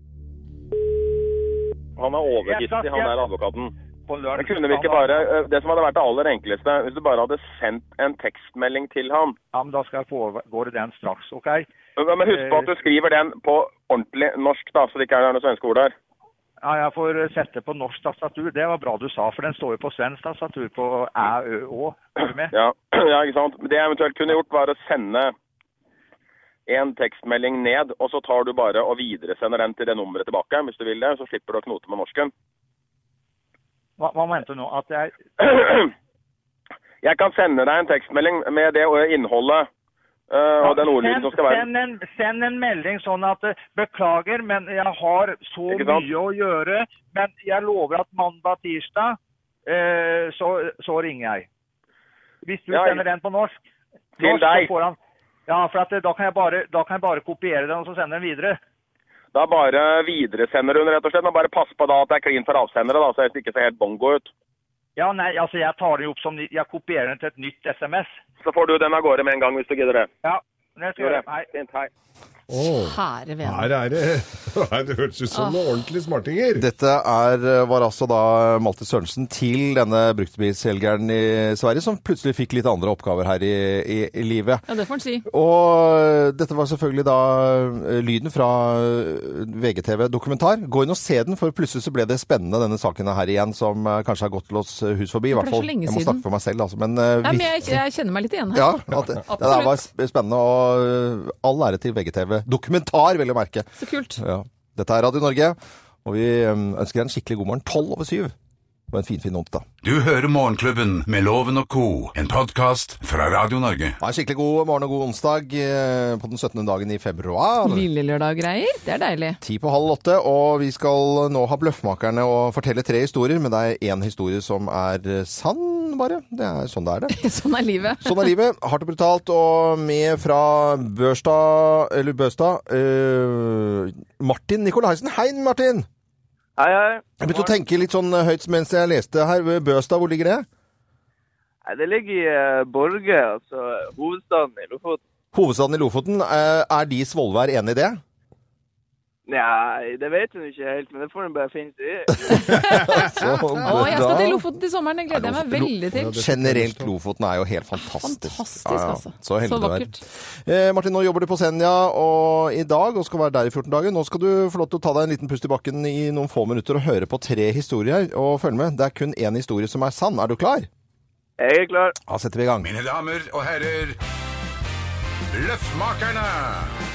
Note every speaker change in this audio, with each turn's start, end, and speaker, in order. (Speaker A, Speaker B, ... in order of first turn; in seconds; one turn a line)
Speaker A: 2.0-3.7
Speaker B: 2.4-3.1
Speaker B: 4.1-5.3
Speaker A: 4.3-9.3
Speaker B: 9.5-11.7
Speaker A: 12.0-15.9
Speaker B: 12.3-12.7
Speaker B: 16.6-22.5
Speaker A: 22.5-25.3
Speaker A: 26.7-32.3
Speaker B: 34.0-35.1
Speaker A: 35.4-35.9
Speaker A: 37.0-39.7
Speaker A: 40.3-41.7
Speaker B: 40.6-51.5
Speaker A: 45.7-46.1
Speaker B: 52.4-53.6
Speaker A: 52.7-53.0
Speaker B: 54.2-58.6
Speaker A: 54.2-54.7
Speaker A: 59.3-64.3
Speaker B: 65.0-68.2
Speaker A: 68.4-70.1
Speaker B: 70.2-71.5
Speaker A: 71.0-71.9
Speaker C: 72.5-76.6
Speaker D: 72.6-73.7
Speaker D: 75.3-75.6
Speaker E: 76.5-84.6
Speaker D: 84.7-85.2
Speaker E: 85.2-97.8
Speaker D: 95.3-96.2
Speaker D: 97.2-99.8
Speaker E: 98.5-108.3
Speaker D: 103.8-104.2
Speaker E: 108.9-109.6
Speaker F: 109.8-114.0
Speaker E: 114.0-117.9
Speaker D: 117.6-119.4
Speaker E: 119.4-127.2
Speaker D: 127.1-128.3
Speaker E: 128.0-135.9
Speaker G: 136.6-137.5
Speaker E: 137.2-140.4
Speaker G: 141.6-145.0
Speaker E: 145.3-148.0
Speaker G: 149.3-152.3
Speaker D: 152.3-153.1
Speaker E: 152.3-154.5
Speaker C: 152.6-153.5
Speaker D: 153.6-156.2
Speaker E: 155.1-170.7
Speaker C: 155.9-156.9
Speaker D: 157.8-160.0
Speaker G: 171.4-171.9
Speaker E: 172.1-172.7
Speaker F: 172.6-174.0
Speaker F: 175.3-176.7